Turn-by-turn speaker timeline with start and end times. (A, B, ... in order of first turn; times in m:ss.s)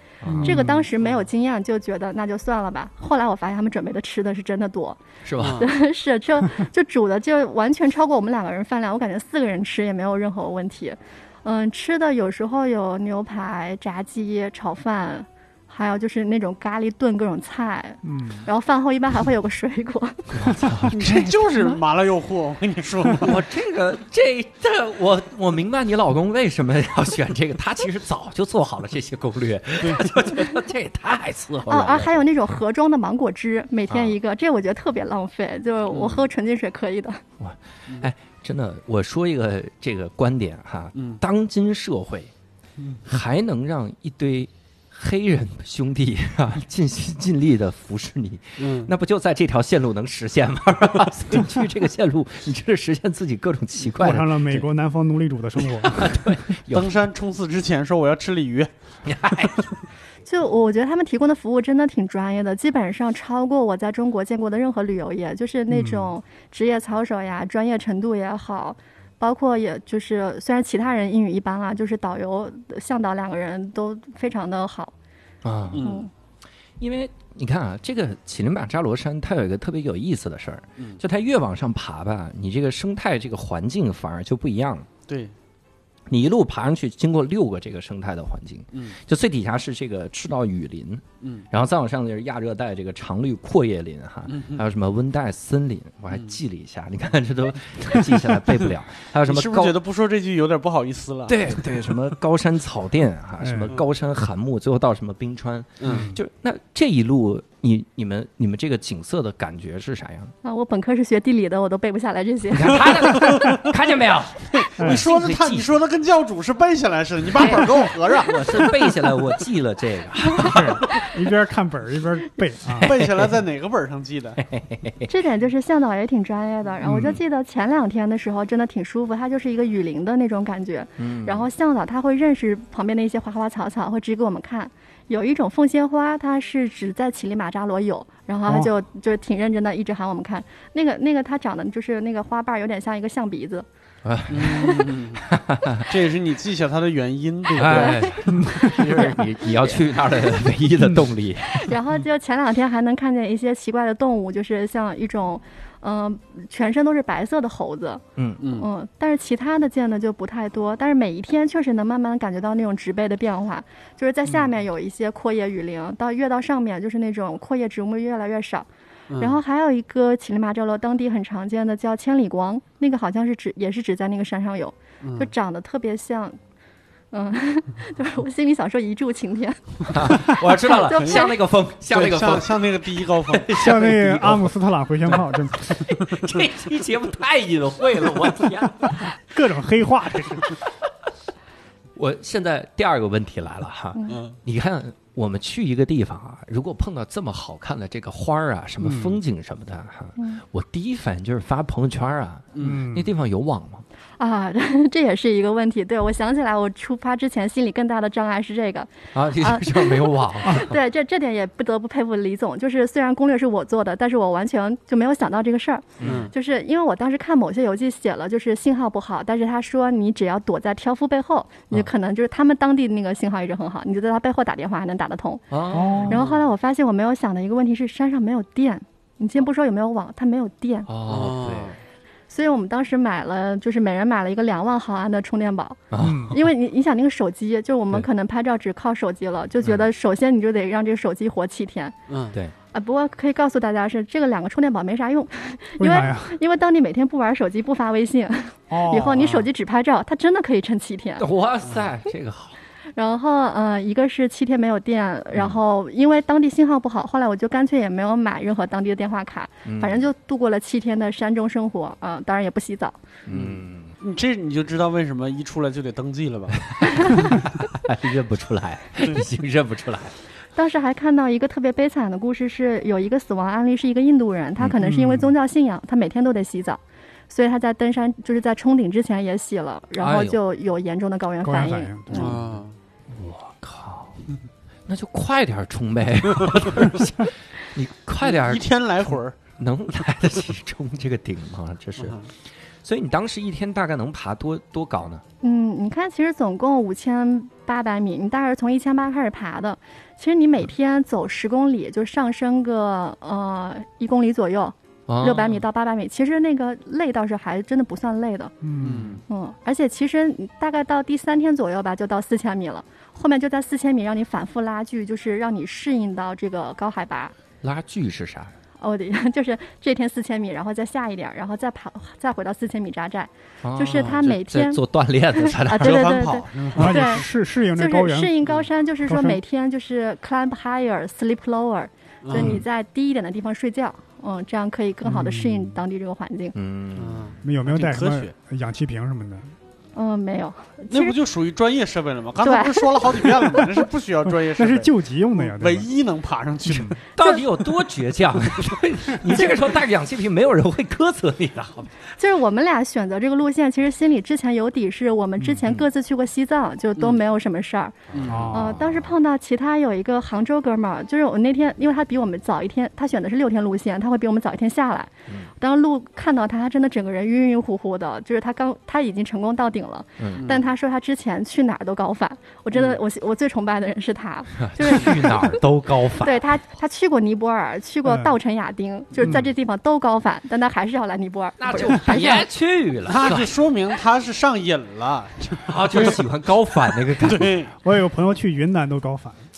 0:00.2-0:00.6 A
0:00.3-0:00.9 B
0:00.4-0:20.3 C
0:05.2-0:05.7 A
0:05.4-0:05.7 D
0:18.0-0:18.5 B
0:20.3-0:21.8 A
0:20.9-0:23.4 D
0:23.2-0:32.2 A
0:31.7-0:37.2 C
0:33.9-0:34.2 A
0:35.9-0:36.2 D
0:37.4-0:42.3 A
0:41.0-0:41.2 D
0:43.0-0:54.5 A
0:48.6-0:48.9 D
0:54.0-0:56.0 B
0:55.8-0:56.9 A
0:56.7-0:58.7 D
0:59.0-0:59.6 A
1:00.3-1:14.9 C
1:05.7-1:06.1 B
1:15.4-1:16.0 A
1:15.7-1:16.1 D
1:15.8-1:16.1 C
1:16.8-1:24.9 A
1:25.1-1:25.3 D
1:26.1-1:39.8 A
1:28.7-1:29.0 D
1:34.3-1:34.6 D
1:39.3-1:41.7 D
1:41.3-1:50.3 A
1:43.4-1:43.7 B
1:45.8-1:46.1 D
1:45.9-1:46.2 B
1:50.4-1:53.0 C
1:52.5-1:55.7 A
1:53.0-1:53.7 D
1:54.6-1:59.0 D
1:54.8-1:55.0 B
1:57.4-2:00.9 A
2:00.4-2:03.0 B
2:02.7-2:04.4 D
2:02.9-2:03.3 A
2:04.4-2:05.1 A
2:05.1-2:23.7 C
2:06.8-2:07.2 B
2:06.9-2:07.2 A
2:11.0-2:11.5 A
2:24.0-2:25.9 A
2:24.3-2:25.3 D
2:25.8-2:29.2 D
2:27.5-2:31.7 A
2:27.7-2:29.8 C
2:28.3-2:28.7 B
2:31.5-2:48.7 C
2:38.2-2:38.4 A
2:38.4-2:38.7 D
2:49.1-2:49.4 D
2:49.2-2:56.4 C
2:55.0-2:55.3 D
2:57.1-3:01.4 C
2:59.9-3:04.5 A
3:00.7-3:01.3 D
3:01.9-3:04.0 D
3:03.6-3:05.8 B
3:05.0-3:09.1 A
3:09.3-3:10.6 B
3:12.0-3:23.8 A
3:14.0-3:14.2 C
3:14.1-3:14.4 D
3:18.8-3:19.2 B
3:22.6-3:22.9 D
3:22.6-3:23.1 B
3:24.2-3:45.5 C
3:29.1-3:30.8 A
3:36.0-3:36.3 A
3:36.0-3:36.3 D
3:45.5-3:46.2 A
3:45.7-3:46.2 B
3:45.9-3:46.4 D
3:46.1-3:50.9 C
3:50.9-3:51.8 A
3:51.1-3:51.8 D
3:52.3-4:02.0 C
3:55.9-3:56.4 A
3:56.0-3:56.4 B
3:59.6-3:59.9 A
4:02.1-4:02.4 D
4:02.7-4:11.3 C
4:05.8-4:06.4 B
4:08.7-4:09.3 B
4:09.2-4:09.5 D
4:11.2-4:12.6 A
4:13.0-4:23.0 C
4:19.6-4:20.1 A
4:23.3-4:24.0 A
4:23.3-4:27.2 D
4:26.7-4:30.2 A
4:26.9-4:27.2 C
4:30.6-4:42.4 C
4:34.8-4:35.3 B
4:40.0-4:40.4 A
4:41.4-4:42.4 B
4:42.1-4:42.8 D
4:43.1-4:44.2 A
4:44.9-4:48.8 A
4:48.2-4:49.4 D
4:49.6-4:52.2 A
4:52.0-4:52.3 D
4:52.8-4:55.2 A
4:55.4-5:08.6 C
5:05.1-5:05.6 A
5:08.6-5:09.2 B
5:08.8-5:09.2 D
5:09.3-5:17.3 C
5:17.6-5:18.6 A
5:18.8-5:24.8 C
5:23.6-5:26.3 A
5:25.4-5:36.6 C
5:25.8-5:27.3 D
5:26.7-5:28.4 B
5:29.0-5:29.4 B
5:32.2-5:32.6 D
5:32.3-5:32.6 A
5:35.0-5:35.8 B
5:36.5-5:37.4 A
5:37.0-5:38.3 D
5:37.4-5:39.5 B
5:40.0-5:41.2 C
5:40.9-5:47.0 D
5:42.4-5:43.0 C
5:44.6-5:45.9 B
5:47.2-5:52.0 A
5:52.2-5:58.0 C
5:58.1-5:59.1 A
5:58.1-5:58.5 D
5:58.3-5:58.8 B
5:58.5-6:15.6 C
6:10.2-6:10.4 A
6:10.4-6:10.6 D
6:14.6-6:16.4 A
6:16.2-6:22.5 C
6:18.1-6:18.3 B
6:21.6-6:23.6 A
6:23.1-6:26.2 D
6:25.6-6:27.6 A
6:27.2-6:27.7 D
6:27.8-6:29.4 B